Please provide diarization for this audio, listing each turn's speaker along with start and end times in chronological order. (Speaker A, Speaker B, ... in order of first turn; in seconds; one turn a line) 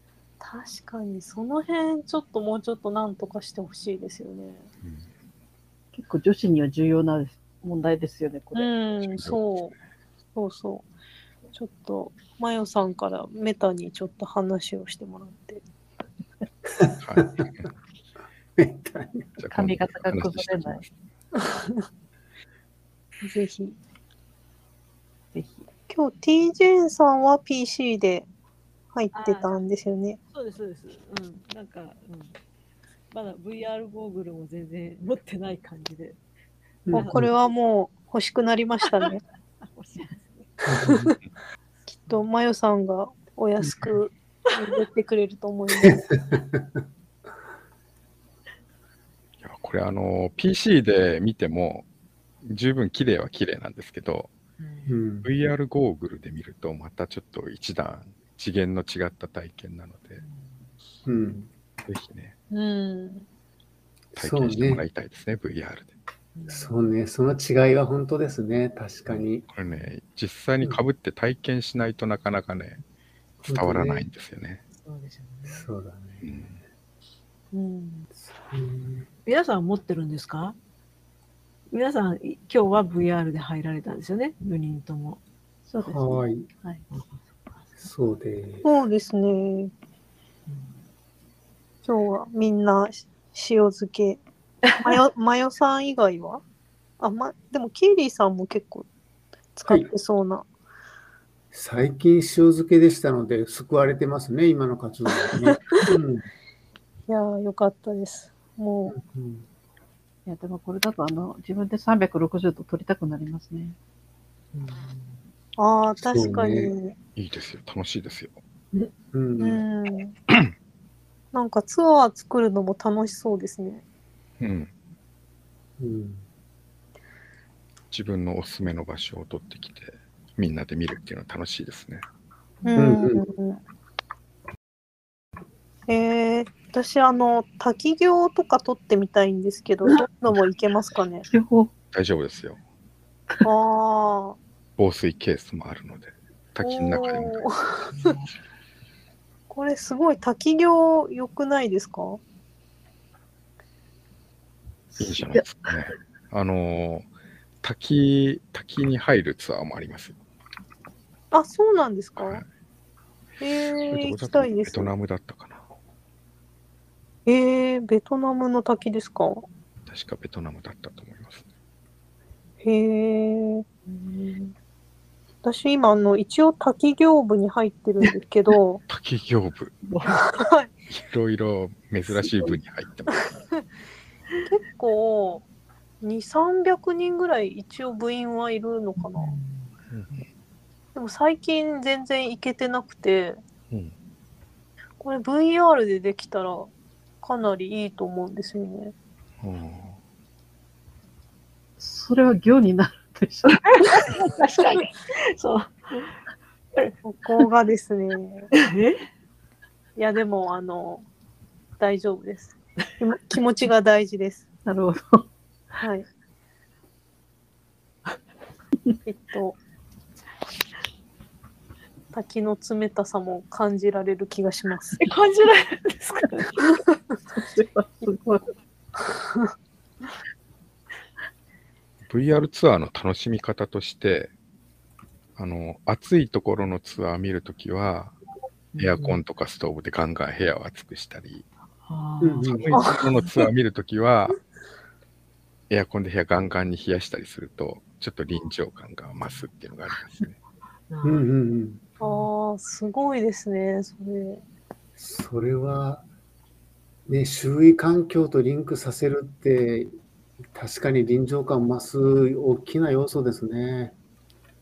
Speaker A: 0.4-4.7
Speaker B: 4.8-5.1
Speaker C: 5.9-8.7
Speaker A: 8.6-9.7
Speaker B: 9.0-9.8
Speaker A: 10.4-10.9
Speaker A: 11.5-15.6
Speaker D: 16.8-17.5
Speaker B: 17.0-17.7
Speaker D: 18.6-19.3
Speaker B: 19.4-20.9
Speaker C: 19.5-20.9
Speaker A: 21.4-21.9
Speaker A: 23.2-23.8
Speaker C: 25.3-25.6
Speaker A: 25.9-28.3
Speaker A: 28.9-30.2
Speaker E: 29.1-29.6
Speaker E: 30.3-32.3
Speaker E: 33.1-36.2
Speaker D: 36.9-37.3
Speaker E: 36.9-37.2
Speaker A: 37.1-39.2
Speaker E: 39.7-40.5
Speaker D: 40.7-41.1
Speaker A: 40.9-41.1
Speaker A: 41.9-46.0
Speaker D: 43.6-43.9
Speaker D: 45.9-46.6
Speaker B: 49.4-51.9
Speaker B: 52.4-54.3
Speaker E: 54.6-55.0
Speaker D: 54.9-55.2
Speaker B: 55.2-60.2
Speaker E: 60.2-60.7
Speaker D: 61.1-61.5
Speaker B: 61.9-62.3
Speaker A: 62.5-63.2
Speaker D: 64.2-64.8
Speaker B: 64.2-65.9
Speaker E: 66.3-66.8
Speaker D: 66.5-69.4
Speaker B: 69.1-72.8
Speaker B: 73.4-74.6
Speaker D: 73.5-74.1
Speaker E: 74.8-75.7
Speaker D: 75.5-76.2
Speaker B: 76.2-76.6
Speaker A: 77.5-78.1
Speaker D: 78.2-79.1
Speaker E: 79.2-80.6
Speaker E: 81.7-85.2
Speaker C: 85.7-86.8
Speaker D: 85.8-86.5
Speaker D: 87.8-88.7
Speaker A: 88.7-89.7
Speaker A: 91.8-94.2
Speaker A: 94.8-96.4
Speaker A: 97.0-98.9
Speaker A: 99.6-100.5
Speaker D: 101.5-106.3
Speaker A: 107.1-108.9
Speaker D: 108.9-109.5
Speaker C: 110.2-113.8
Speaker A: 115.6-117.0
Speaker D: 116.0-116.7
Speaker B: 117.2-118.4
Speaker D: 119.1-119.6
Speaker A: 119.4-120.2
Speaker A: 121.3-123.8
Speaker B: 124.4-124.7
Speaker D: 125.8-126.2
Speaker B: 127.9-132.1
Speaker A: 132.6-133.6
Speaker D: 132.8-133.2
Speaker A: 135.9-141.2
Speaker C: 141.2-141.7
Speaker B: 141.9-142.6
Speaker A: 143.4-144.4
Speaker B: 144.8-147.4
Speaker A: 146.6-148.2
Speaker A: 149.5-152.2
Speaker C: 154.9-155.5
Speaker B: 155.0-157.1
Speaker B: 157.6-160.2
Speaker A: 161.3-162.4
Speaker B: 162.2-162.5
Speaker A: 163.4-164.9
Speaker B: 163.5-165.7
Speaker A: 167.2-169.5
Speaker B: 169.9-171.4
Speaker A: 172.6-174.2
Speaker A: 175.4-178.8
Speaker B: 178.9-179.8
Speaker E: 179.9-180.2
Speaker A: 180.1-180.7
Speaker B: 180.9-183.2
Speaker A: 184.5-185.4
Speaker A: 186.0-189.4
Speaker E: 189.0-189.7
Speaker B: 189.9-190.2
Speaker A: 190.9-193.4
Speaker A: 195.0-198.9
Speaker B: 199.4-200.0
Speaker C: 201.8-203.7
Speaker E: 203.7-206.1
Speaker A: 207.0-208.5
Speaker E: 208.5-209.1
Speaker A: 210.0-211.1
Speaker A: 211.8-214.4
Speaker C: 214.7-215.3
Speaker A: 215.8-216.1
Speaker A: 219.1-219.6
Speaker A: 222.1-225.0
Speaker E: 225.0-226.6
Speaker C: 227.3-228.4
Speaker A: 229.0-229.5
Speaker B: 232.1-234.3
Speaker B: 235.4-238.2
Speaker E: 238.7-239.2
Speaker B: 238.8-241.5
Speaker E: 241.9-243.4
Speaker D: 242.2-242.8
Speaker B: 242.4-244.4
Speaker B: 245.7-250.4
Speaker E: 250.9-251.2
Speaker D: 251.0-251.8
Speaker E: 252.0-252.3
Speaker A: 252.0-254.4
Speaker D: 255.0-256.1
Speaker D: 257.1-259.9
Speaker D: 260.5-263.9